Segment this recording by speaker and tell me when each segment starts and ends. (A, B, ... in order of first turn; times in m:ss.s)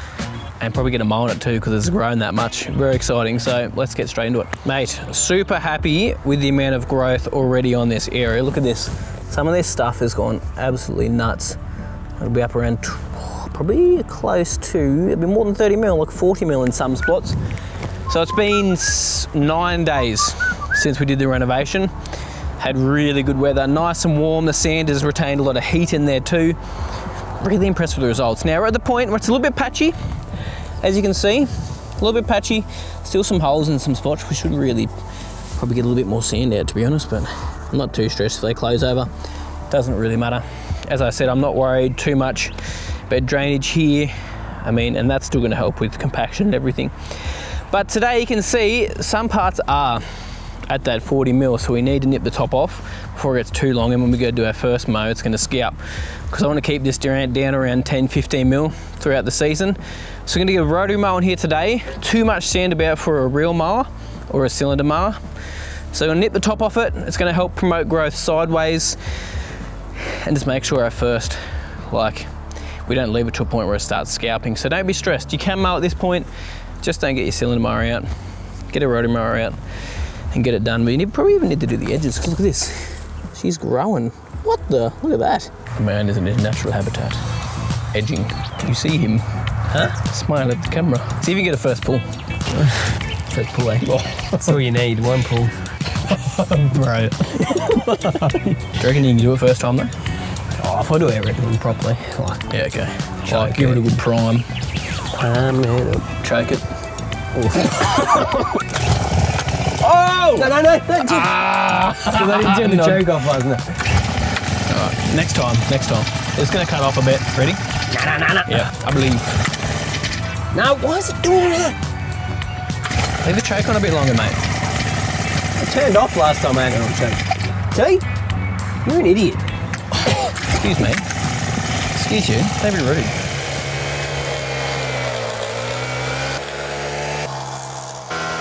0:00.6-0:11.6 A
0:12.2-0:17.4 A
0:18.1-0:21.9 A
0:22.6-0:26.6 A
0:27.4-0:30.0 A
0:30.8-0:34.9 A
0:35.6-0:39.1 A
0:39.7-0:50.1 A
0:50.7-1:05.2 A
1:05.9-1:09.0 A
1:10.0-1:12.3 A
1:12.8-1:16.3 A
1:16.8-1:18.1 A
1:18.7-1:19.6 A
1:20.3-1:27.2 A
1:27.9-1:32.2 A
1:33.3-1:35.6 B
1:33.8-1:34.5 A
1:36.1-1:39.9 A
1:37.6-1:38.4 B
1:40.6-1:42.5 B
1:42.5-1:44.5 A
1:43.3-1:43.8 B
1:45.1-1:46.2 B
1:46.2-1:46.6 A
1:47.4-1:48.6 B
1:49.8-1:53.8 B
1:51.1-1:53.0 A
1:54.7-1:57.6 A
1:57.9-1:58.7 B
1:58.5-1:59.5 A
2:00.5-2:01.8 B
2:03.2-2:04.4 A
2:05.6-2:08.0 B
2:08.8-2:09.4 B
2:10.4-2:11.1 A
2:11.9-2:13.2 A